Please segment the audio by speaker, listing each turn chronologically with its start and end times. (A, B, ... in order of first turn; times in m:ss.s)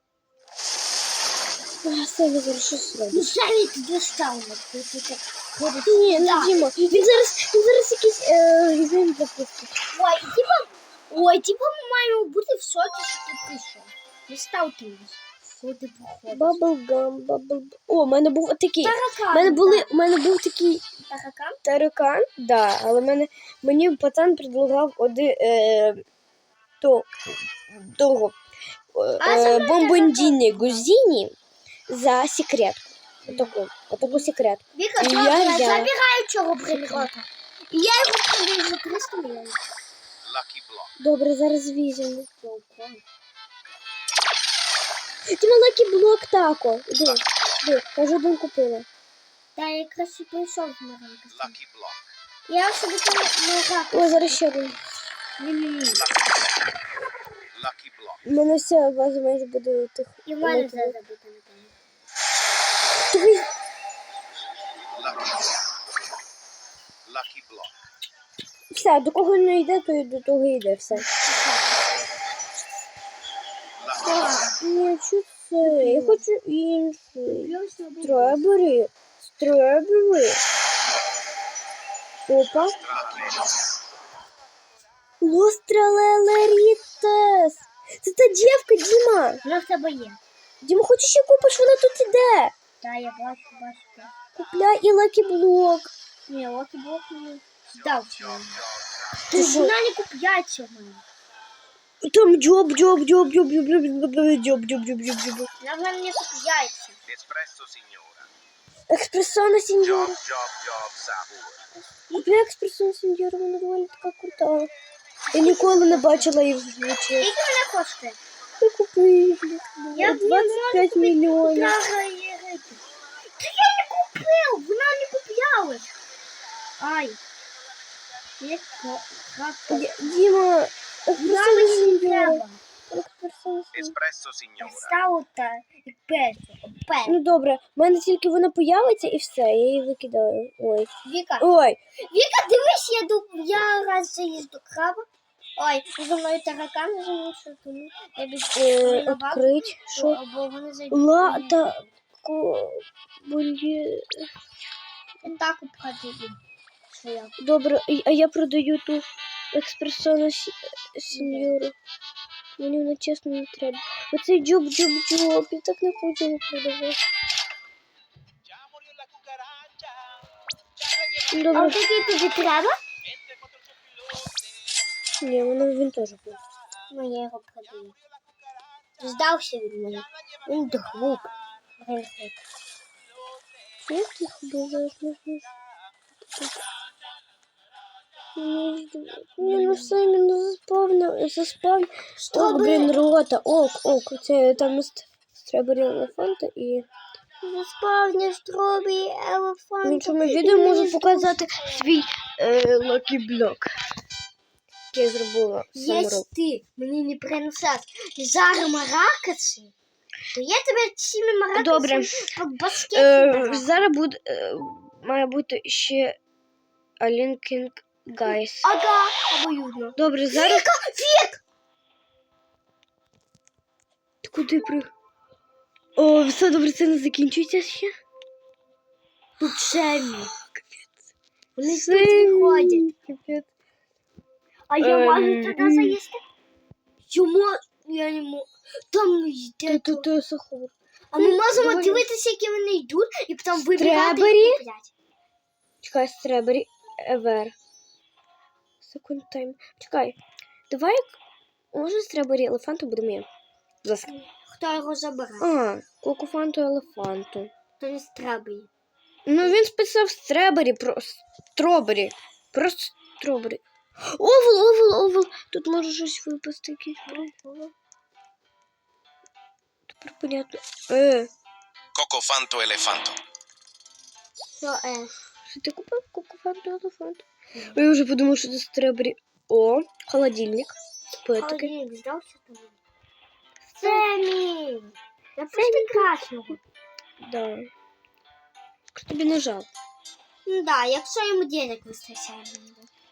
0:01.8-0:03.3 A
0:03.1-0:07.1 B
0:05.8-0:09.7 A
0:09.9-0:16.6 B
0:16.3-0:20.8 A
0:18.8-0:19.9 B
0:21.1-0:21.6 B
0:21.6-0:26.0 A
0:26.8-0:28.4 A
0:28.9-0:31.3 A
0:29.2-0:30.9 B
0:31.9-0:35.9 A
0:33.2-0:39.6 B
0:36.7-0:37.1 A
0:40.2-0:40.8 C
0:41.0-0:42.3 A
0:42.4-0:43.0 B
0:45.3-0:48.9 A
0:49.6-0:51.6 B
0:51.6-0:52.0 C
0:52.5-0:54.4 B
0:53.9-0:54.8 A
0:55.4-0:56.1 B
0:57.6-0:58.1 C
0:58.3-1:01.0 A
1:00.2-1:01.8 B
1:03.0-1:03.5 A
1:07.1-1:07.7 C
1:08.7-1:11.1 A
1:10.9-1:11.9 B
1:13.9-1:14.6 B
1:14.6-1:20.4 A
1:15.6-1:16.2 B
1:17.2-1:18.5 B
1:22.3-1:22.8 A
1:22.9-1:23.4 C
1:25.2-1:29.4 A
1:29.4-1:30.2 B
1:30.6-1:32.5 A
1:32.8-1:34.1 B
1:34.4-1:35.9 A
1:36.3-1:38.6 B
1:39.3-1:41.0 B
1:39.3-1:39.7 A
1:42.0-1:45.5 A
1:45.6-1:47.0 B
1:47.1-1:48.3 C
1:48.9-1:50.2 A
1:50.2-1:51.6 C
1:51.8-1:52.3 B
1:52.1-1:54.7 A
1:55.3-1:56.3 B
1:55.3-1:57.3 A
1:57.2-1:58.2 B
1:58.6-2:01.8 A
1:59.8-2:02.8 B
2:03.4-2:05.9 B
2:06.8-2:07.2 B
2:08.4-2:10.2 B
2:09.7-2:14.0 A
2:11.2-2:12.6 B
2:13.8-2:14.9 C
2:14.6-2:17.2 B
2:17.0-2:21.8 A
2:21.0-2:21.5 B
2:22.1-2:25.1 B
2:25.6-2:31.6 B
2:28.6-2:30.2 A
2:30.9-2:34.3 A
2:35.2-2:37.4 B
2:37.4-2:41.8 A
2:41.1-2:41.6 B
2:42.6-2:47.0 A
2:51.3-2:51.8 A
2:51.5-2:52.8 B
2:55.2-2:56.4 A
2:56.9-2:58.0 B
2:59.0-3:02.4 B
3:03.9-3:05.4 A
3:06.3-3:06.6 A
3:08.4-3:16.9 A
3:09.4-3:10.0 B
3:12.2-3:13.0 B
3:17.4-3:22.0 B
3:19.8-3:23.7 A
3:24.9-3:26.3 A
3:25.7-3:29.7 B
3:30.3-3:33.9 B
3:31.5-3:32.3 A
3:32.9-3:36.2 A
3:37.0-3:38.7 A
3:38.2-3:41.4 B
3:40.0-3:40.6 A
3:44.2-3:44.9 A
3:46.0-3:47.9 A
3:49.4-3:50.3 B
3:50.4-3:51.0 A
3:51.6-3:52.9 B
3:51.7-3:53.5 A
3:54.7-3:56.2 B
3:54.8-3:56.0 A
3:57.1-4:00.1 B
3:59.7-4:02.0 A
4:01.1-4:04.9 B
4:03.6-4:04.6 A
4:05.8-4:07.5 A
4:08.8-4:10.2 A
4:10.7-4:11.2 A
4:11.7-4:13.3 A
4:13.8-4:14.1 A
4:14.1-4:15.5 B
4:15.4-4:17.5 A
4:17.8-4:18.7 B
4:19.3-4:23.6 A
4:24.1-4:27.3 A
4:27.1-4:27.7 B
4:29.9-4:31.3 A
4:31.9-4:33.2 C
4:34.6-4:35.2 B
4:35.5-4:41.7 A
4:37.6-4:37.8 B
4:41.4-4:42.8 B
4:43.8-4:46.6 B
4:45.5-4:46.2 A
4:47.2-4:47.7 A
4:48.9-4:49.7 A
4:50.5-4:52.9 B